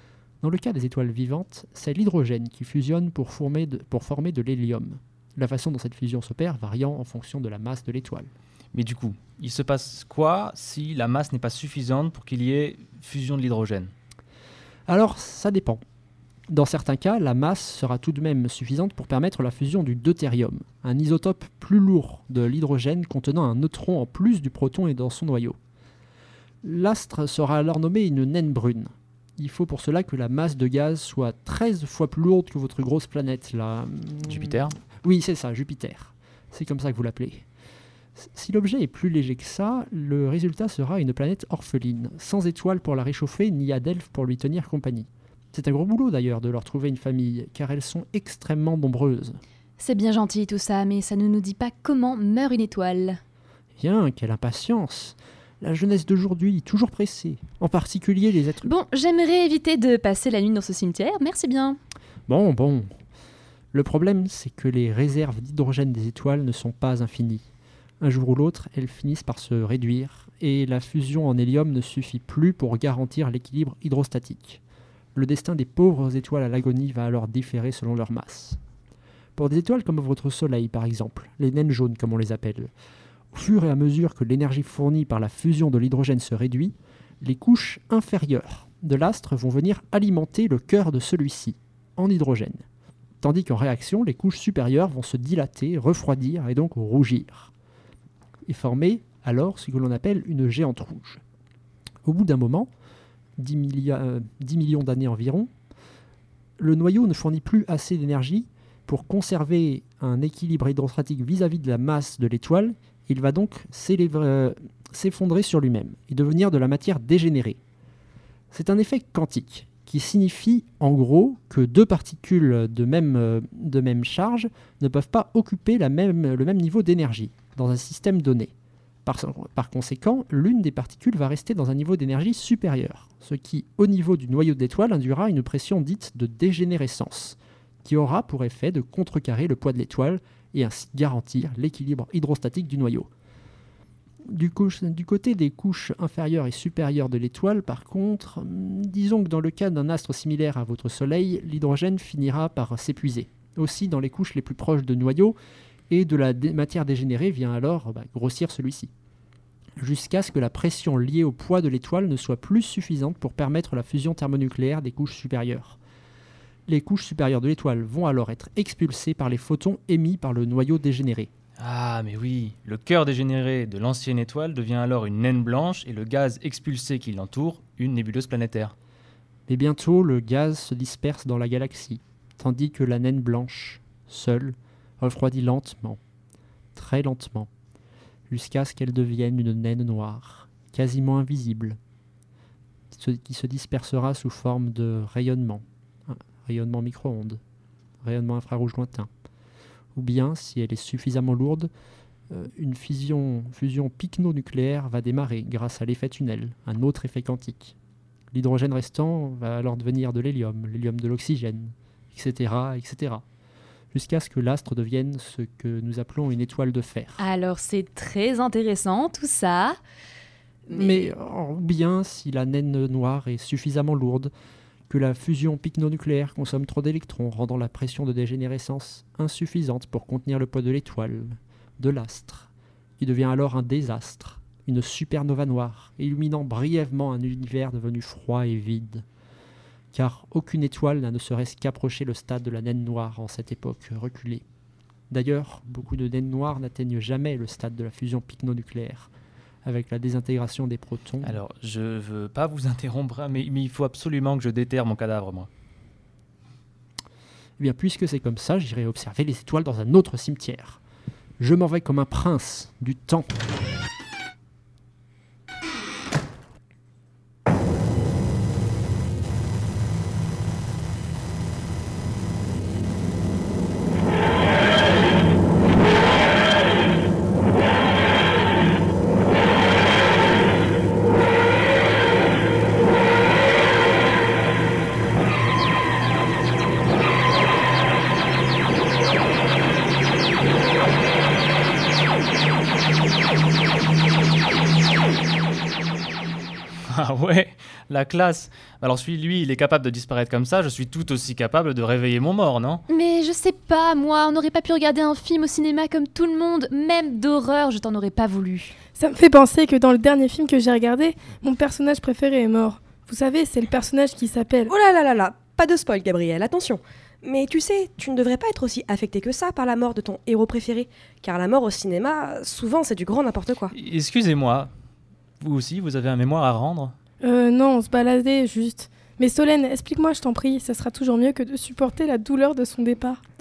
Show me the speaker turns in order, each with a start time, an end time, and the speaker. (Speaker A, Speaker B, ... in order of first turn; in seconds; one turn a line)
Speaker A: 0.4-8.3
Speaker B: 8.7-13.9
Speaker A: 14.9-15.8
Speaker A: 16.5-25.6
Speaker A: 26.6-37.5
Speaker B: 34.3-34.8
Speaker A: 38.2-49.4
Speaker C: 49.8-53.2
Speaker A: 53.8-58.7
Speaker C: 58.6-61.8
Speaker A: 62.3-63.0
Speaker A: 63.7-67.5
Speaker A: 68.0-74.6
Speaker A: 75.2-78.6
Speaker A: 79.4-82.7
Speaker A: 83.3-92.7
Speaker A: 93.2-97.5
Speaker A: 98.5-101.2
Speaker A: 102.0-102.7
Speaker A: 103.4-105.5
Speaker A: 106.6-117.6
Speaker A: 118.5-128.5
Speaker A: 129.1-143.1
Speaker A: 144.3-155.4
Speaker A: 155.9-158.9
Speaker A: 159.8-165.8
Speaker A: 166.7-171.3
Speaker B: 171.6-178.7
Speaker A: 179.5-186.0
Speaker A: 186.8-187.5
Speaker A: 188.3-191.8
Speaker A: 192.9-197.4
Speaker A: 198.0-199.1
Speaker A: 199.9-201.7
Speaker A: 202.3-207.8
Speaker A: 208.3-213.2
Speaker A: 213.9-217.2
Speaker C: 217.2-219.8
Speaker C: 220.7-221.1
Speaker A: 220.7-224.3
Speaker A: 224.9-239.1
Speaker A: 239.9-244.4
Speaker A: 245.1-249.1
Speaker A: 249.7-251.4
Speaker B: 251.2-255.5
Speaker A: 257.6-260.8
Speaker A: 261.4-263.4
Speaker B: 296.9-302.8
Speaker C: 302.9-308.8
Speaker D: 309.0-314.7
Speaker E: 314.7-323.7
Speaker B: 323.7-324.7
Speaker B: 325.4-326.9
Speaker D: 327.2-333.2